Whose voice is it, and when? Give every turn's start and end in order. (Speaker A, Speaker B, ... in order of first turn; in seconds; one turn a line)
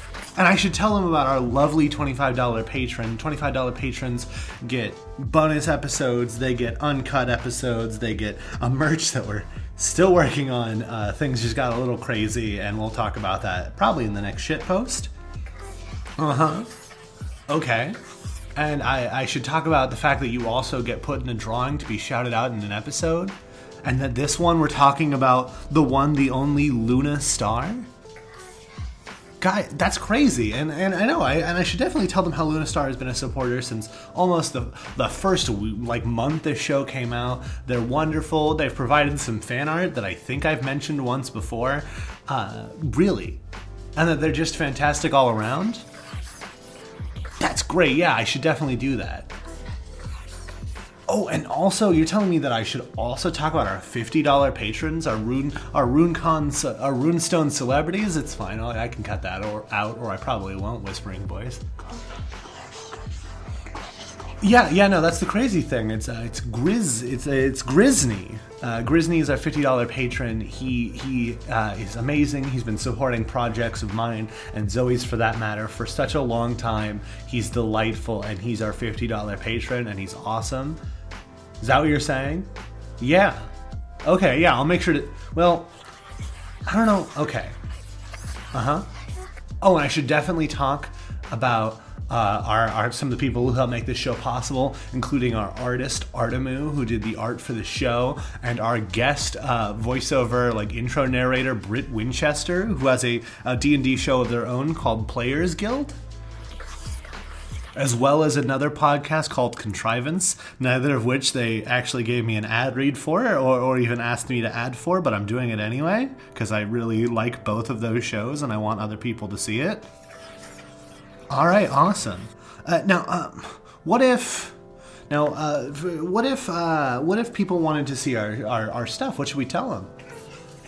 Speaker A: 0.3-15.1
Speaker A: 16.2-16.7
Speaker A: 17.5-18.0
Speaker A: 18.5-27.9
Speaker A: 29.4-43.4
Speaker A: 44.0-45.8
Speaker A: 47.4-49.3
Speaker A: 51.1-61.6
Speaker A: 64.4-80.8
Speaker A: 81.6-83.5
Speaker A: 84.0-85.7
Speaker A: 86.7-87.5
Speaker A: 88.5-88.9
Speaker A: 89.6-106.0
Speaker A: 107.7-119.9
Speaker A: 121.3-124.5
Speaker A: 125.1-129.9